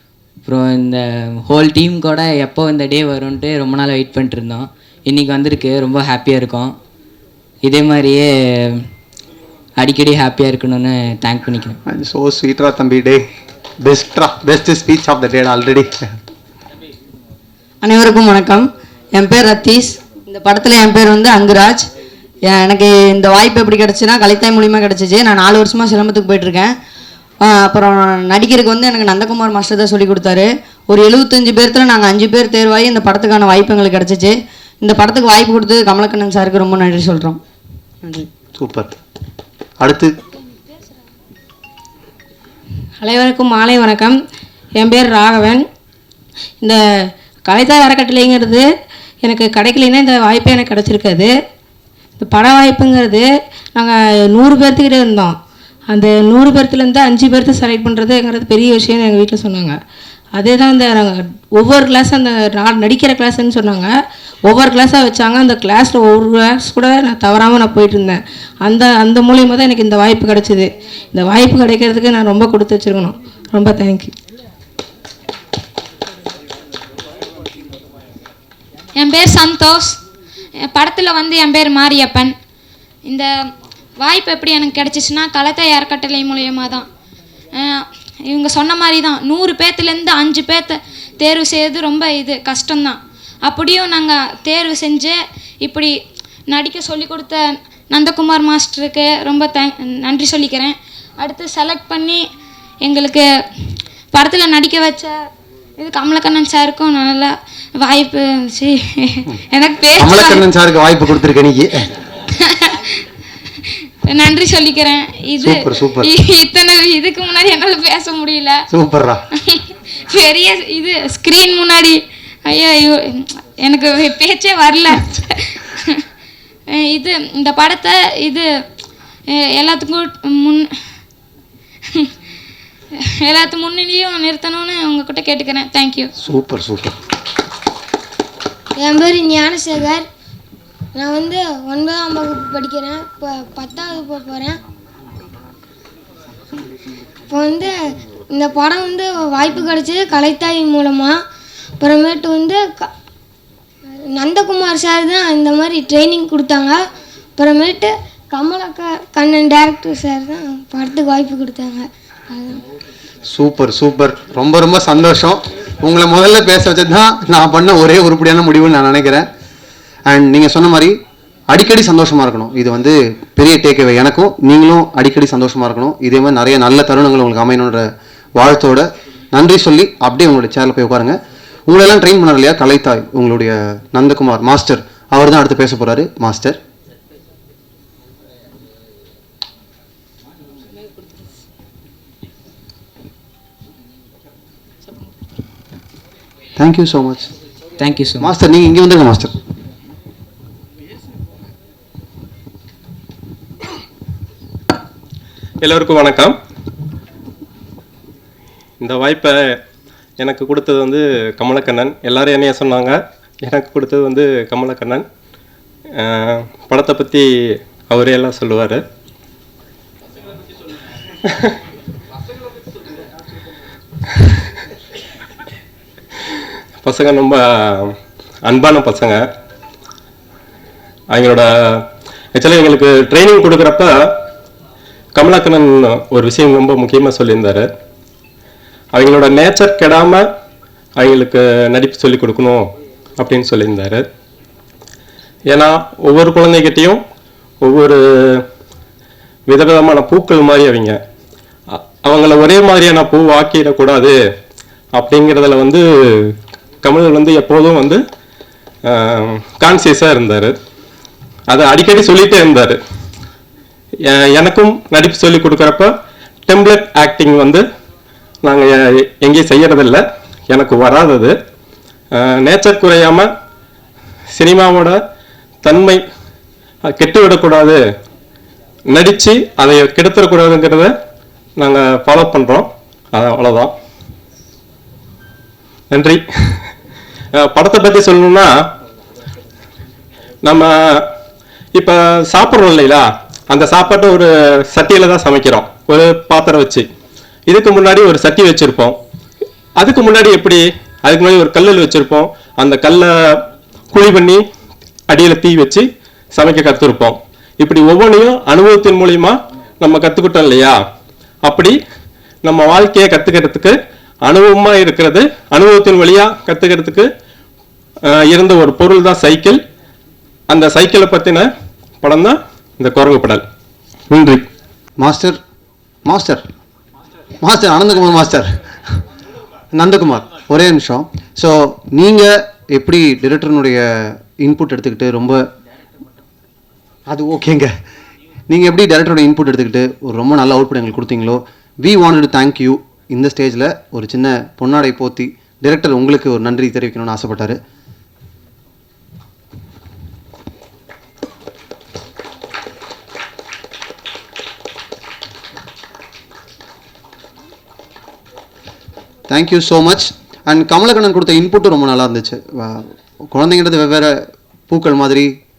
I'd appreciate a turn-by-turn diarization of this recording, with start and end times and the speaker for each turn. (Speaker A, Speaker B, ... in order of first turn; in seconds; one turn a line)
Speaker A: 0.5-6.8
Speaker A: 7.6-8.9
Speaker A: 9.8-11.8
Speaker B: 11.9-13.2
Speaker B: 13.8-16.0
Speaker C: 17.8-21.9
Speaker C: 22.5-26.7
Speaker C: 27.4-34.3
Speaker C: 34.8-37.4
Speaker B: 38.5-39.0
Speaker B: 39.8-40.1
Speaker D: 43.0-44.2
Speaker D: 44.8-45.6
Speaker D: 47.5-48.6
Speaker D: 49.2-51.3
Speaker D: 52.2-53.2
Speaker D: 53.8-55.4
Speaker D: 55.9-59.8
Speaker D: 60.4-63.9
Speaker D: 64.5-74.1
Speaker E: 79.0-80.0
Speaker E: 80.6-82.3
Speaker E: 84.0-86.9
Speaker E: 87.5-95.9
Speaker E: 96.5-102.2
Speaker E: 102.8-105.2
Speaker E: 105.8-110.5
Speaker B: 110.0-111.9
Speaker E: 112.3-113.0
Speaker E: 114.0-118.7
Speaker B: 115.4-116.1
Speaker B: 118.7-119.2
Speaker E: 119.3-126.0
Speaker E: 126.7-128.4
Speaker E: 129.3-130.7
Speaker E: 133.0-136.1
Speaker B: 136.2-137.0
Speaker F: 138.8-140.0
Speaker F: 141.0-144.6
Speaker F: 147.3-147.8
Speaker F: 148.3-151.1
Speaker F: 151.8-152.9
Speaker F: 153.9-156.8
Speaker F: 157.4-162.6
Speaker B: 163.3-169.3
Speaker B: 170.1-171.0
Speaker B: 171.5-177.8
Speaker B: 178.4-181.2
Speaker B: 181.7-186.6
Speaker B: 196.6-197.3
Speaker A: 197.8-198.3
Speaker B: 198.2-199.3
Speaker G: 205.6-206.3
Speaker G: 208.8-209.6
Speaker G: 210.2-215.1
Speaker G: 216.0-217.3
Speaker G: 217.9-218.8
Speaker G: 226.8-229.2
Speaker G: 231.1-233.9
Speaker G: 235.2-237.7
Speaker G: 238.9-240.2
Speaker G: 241.0-242.7
Speaker G: 243.2-244.1
Speaker G: 245.5-247.0
Speaker G: 247.6-248.5
Speaker G: 249.5-251.0
Speaker G: 251.7-254.1
Speaker G: 254.9-258.0
Speaker G: 258.9-260.6
Speaker G: 261.5-262.8
Speaker G: 264.1-265.9
Speaker G: 266.5-267.6
Speaker G: 268.4-271.3
Speaker G: 272.1-273.3
Speaker G: 274.4-275.0
Speaker G: 275.6-276.0
Speaker G: 277.0-277.8
Speaker G: 278.9-280.9
Speaker G: 281.6-283.7
Speaker G: 285.9-286.6
Speaker G: 287.4-288.6
Speaker G: 290.4-291.1
Speaker G: 291.8-296.9
Speaker G: 297.5-299.0
Speaker G: 299.8-304.4
Speaker G: 305.1-310.8
Speaker G: 311.4-311.8
Speaker G: 312.4-317.1
Speaker G: 318.1-319.6
Speaker G: 320.5-321.5
Speaker G: 322.0-323.4
Speaker G: 324.1-324.5
Speaker B: 325.0-325.4
Speaker B: 326.1-326.4
Speaker B: 327.4-328.5
Speaker B: 329.7-335.4
Speaker B: 337.1-337.7
Speaker B: 338.5-347.6
Speaker B: 359.3-365.3